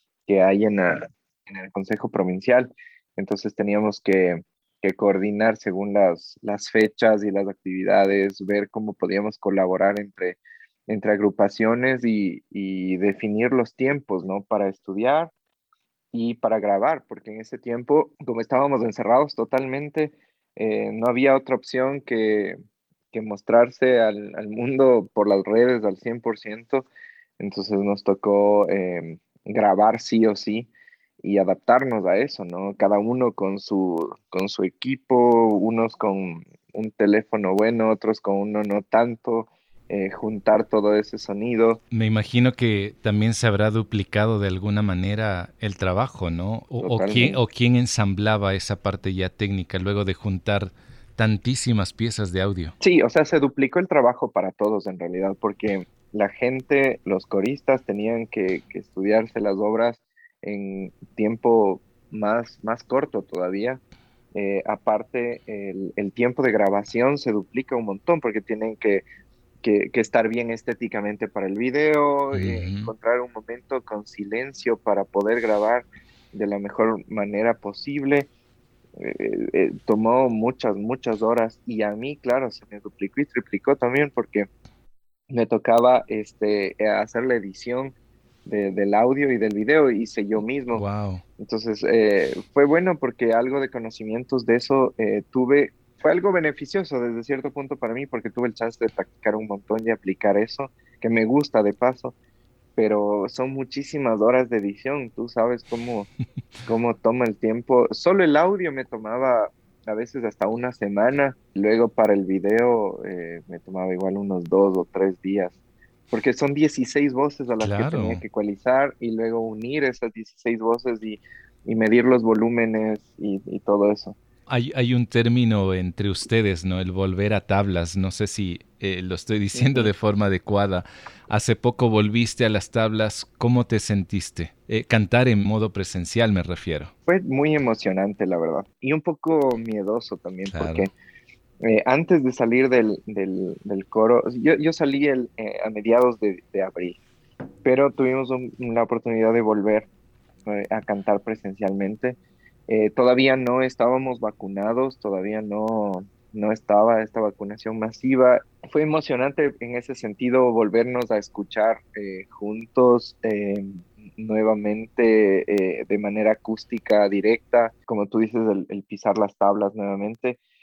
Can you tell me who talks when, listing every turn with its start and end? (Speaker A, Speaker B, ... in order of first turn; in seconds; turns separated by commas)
Speaker A: 0.3-15.3, Speaker A: 16.1-22.6, Speaker A: 23.1-26.9, Speaker A: 27.4-30.7, Speaker A: 31.2-41.8, Speaker B: 41.9-52.8, Speaker A: 46.8-47.4, Speaker A: 52.8-63.8, Speaker A: 64.3-69.0, Speaker A: 69.6-78.3, Speaker B: 72.3-72.9, Speaker A: 79.0-84.5, Speaker A: 85.3-87.9, Speaker A: 88.5-90.8, Speaker B: 90.7-91.2, Speaker A: 91.4-102.2, Speaker A: 102.8-106.1, Speaker A: 106.7-115.6, Speaker A: 116.1-124.2, Speaker B: 117.6-118.2, Speaker B: 124.5-136.9, Speaker A: 129.5-129.9, Speaker A: 137.1-140.9, Speaker B: 140.5-140.9, Speaker A: 141.6-147.0, Speaker A: 147.6-149.9, Speaker A: 150.5-170.4